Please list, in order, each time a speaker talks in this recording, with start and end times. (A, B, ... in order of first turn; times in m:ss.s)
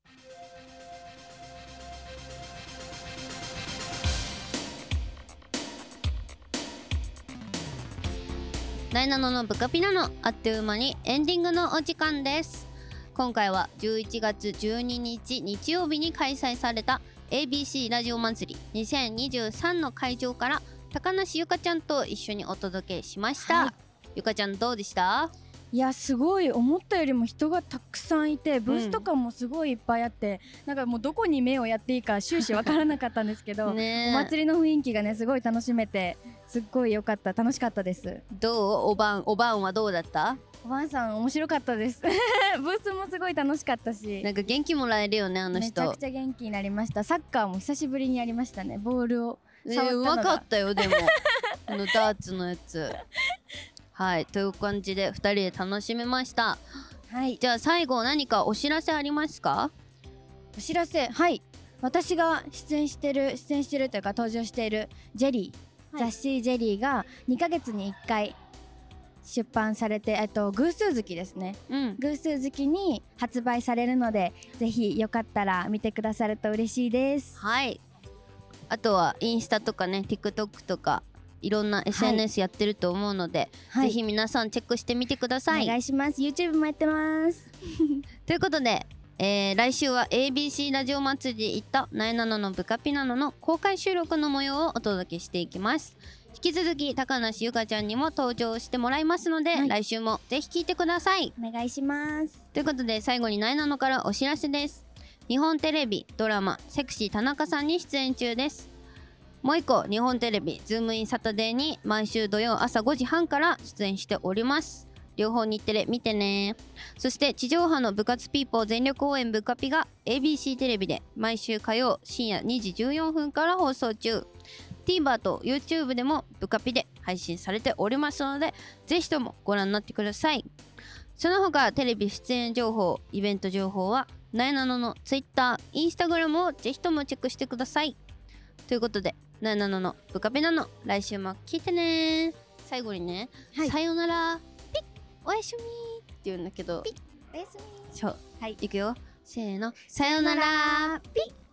0:08.9-0:25.3 A
0:23.4-0:23.7 B
0:25.7-0:38.2 B
0:28.7-0:29.1 A
0:33.6-0:34.3 A
0:38.3-0:40.4 A
0:40.6-0:44.3 B
0:44.2-0:46.0 A
0:45.5-0:51.6 B
0:49.6-0:51.2 A
0:51.7-0:53.0 A
0:53.9-0:56.6 A
0:57.1-0:57.4 B
0:57.4-0:59.7 A
1:00.5-1:08.4 B
1:09.2-1:17.4 B
1:11.7-1:12.0 A
1:17.4-1:17.8 A
1:18.7-1:25.7 A
1:21.9-1:22.2 B
1:23.7-1:24.0 B
1:25.5-1:28.0 B
1:28.2-1:41.3 A
1:41.4-1:42.4 B
1:42.5-1:48.7 A
1:49.4-2:04.3 A
2:04.8-2:10.4 A
2:11.2-2:18.0 A
2:18.7-2:26.9 A
2:26.8-2:28.6 B
2:27.9-2:31.0 A
2:30.0-2:31.3 B